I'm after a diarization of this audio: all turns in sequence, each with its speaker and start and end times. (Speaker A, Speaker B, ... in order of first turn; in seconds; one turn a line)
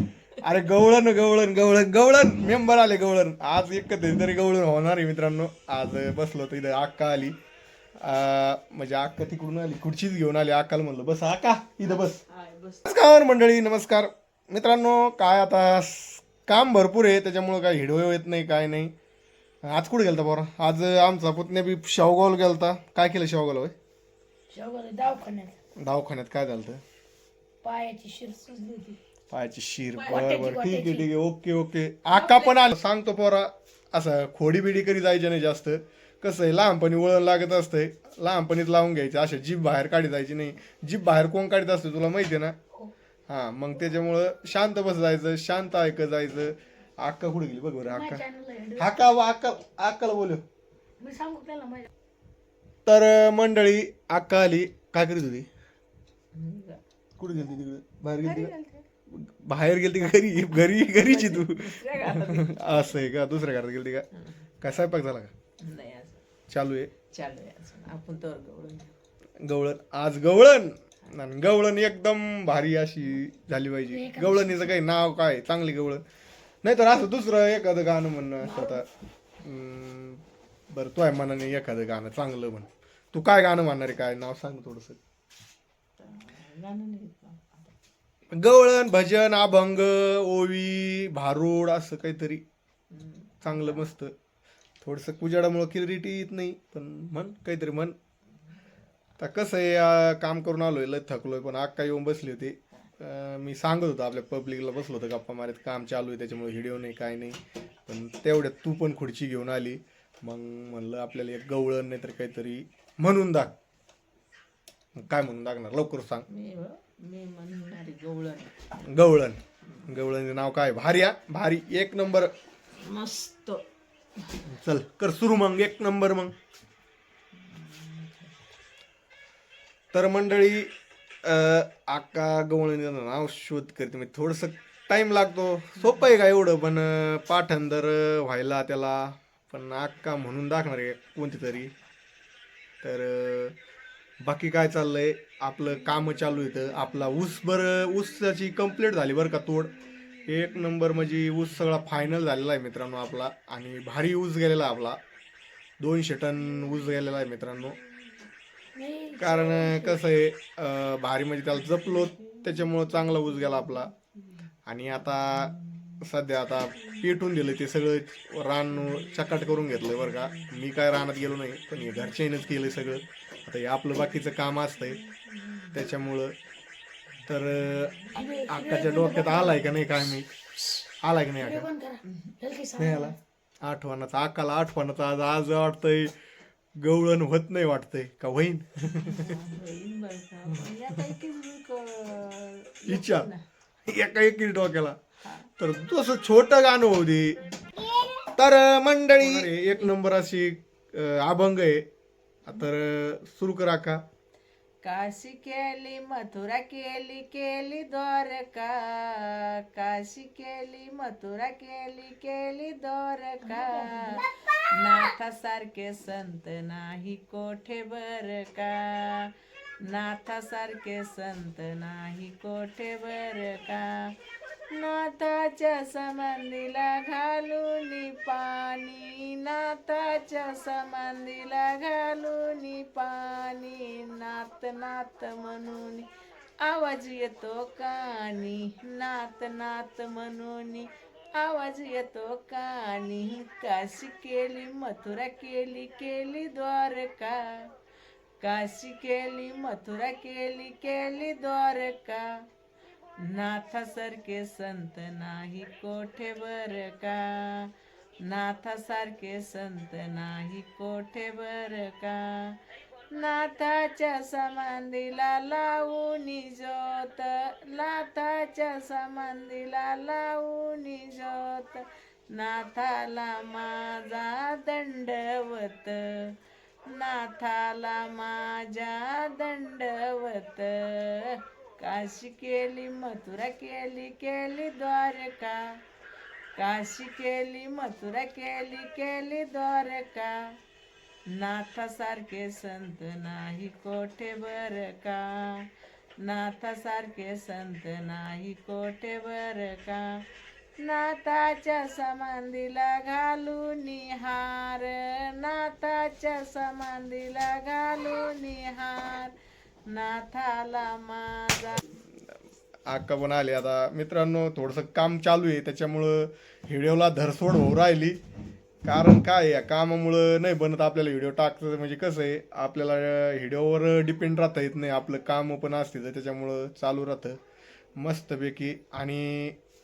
Speaker A: 0.4-7.4
Speaker A: 8.0-12.2
Speaker B: 12.3-12.8
Speaker A: 12.8-18.9
Speaker A: 19.6-23.7
Speaker C: 24.5-25.6
Speaker A: 25.8-26.8
Speaker C: 27.6-29.0
Speaker A: 29.3-42.5
Speaker C: 30.0-31.1
Speaker B: 30.1-30.4
Speaker B: 32.1-32.5
Speaker A: 43.3-48.2
Speaker C: 47.9-49.0
Speaker A: 48.8-50.4
Speaker C: 51.0-51.9
Speaker A: 52.9-55.5
Speaker B: 56.3-56.8
Speaker A: 57.2-58.5
Speaker B: 58.2-58.9
Speaker A: 59.1-64.1
Speaker B: 60.5-63.0
Speaker A: 64.6-65.3
Speaker B: 65.6-66.2
Speaker A: 66.5-66.9
Speaker B: 67.1-69.0
Speaker A: 69.4-76.0
Speaker C: 73.9-74.8
Speaker A: 76.6-78.9
Speaker C: 78.4-78.8
Speaker A: 79.4-85.0
Speaker B: 86.0-87.7
Speaker A: 88.3-92.4
Speaker B: 92.9-93.9
Speaker A: 93.4-94.1
Speaker A: 94.8-98.0
Speaker A: 99.2-113.5
Speaker A: 115.0-116.3
Speaker B: 116.3-118.6
Speaker A: 118.8-122.3
Speaker B: 122.8-123.6
Speaker A: 124.5-126.3
Speaker B: 127.4-128.3
Speaker A: 129.9-130.7
Speaker A: 131.2-141.7
Speaker B: 135.8-136.1
Speaker A: 142.8-143.6
Speaker A: 144.2-149.8
Speaker A: 150.3-155.0
Speaker A: 155.8-157.8
Speaker C: 158.8-160.0
Speaker A: 159.2-163.9
Speaker B: 161.5-164.4
Speaker A: 164.7-175.0
Speaker B: 165.0-166.0
Speaker B: 166.8-167.1
Speaker B: 168.7-170.7
Speaker B: 171.7-173.0
Speaker B: 174.1-175.8
Speaker A: 175.7-176.3
Speaker A: 177.3-180.3
Speaker B: 177.5-178.4
Speaker C: 178.1-180.1
Speaker A: 181.0-181.7
Speaker C: 181.4-183.2
Speaker B: 182.1-182.3
Speaker A: 182.8-186.1
Speaker A: 186.8-189.4
Speaker B: 188.8-193.4
Speaker A: 192.9-193.3
Speaker A: 193.9-195.0
Speaker A: 195.6-197.4
Speaker A: 198.4-201.8
Speaker B: 199.2-200.0
Speaker A: 202.5-204.0
Speaker B: 204.8-224.1
Speaker C: 213.4-214.2
Speaker B: 224.7-236.1
Speaker B: 236.6-247.7
Speaker B: 248.4-252.3
Speaker B: 253.2-257.7
Speaker B: 258.2-262.6
Speaker B: 263.1-276.4
Speaker B: 276.9-285.6
Speaker B: 286.6-290.4
Speaker B: 291.3-295.7
Speaker B: 296.2-300.1
Speaker B: 300.8-309.3
Speaker B: 309.9-311.8
Speaker A: 312.9-318.2
Speaker A: 318.9-327.4
Speaker A: 328.0-329.6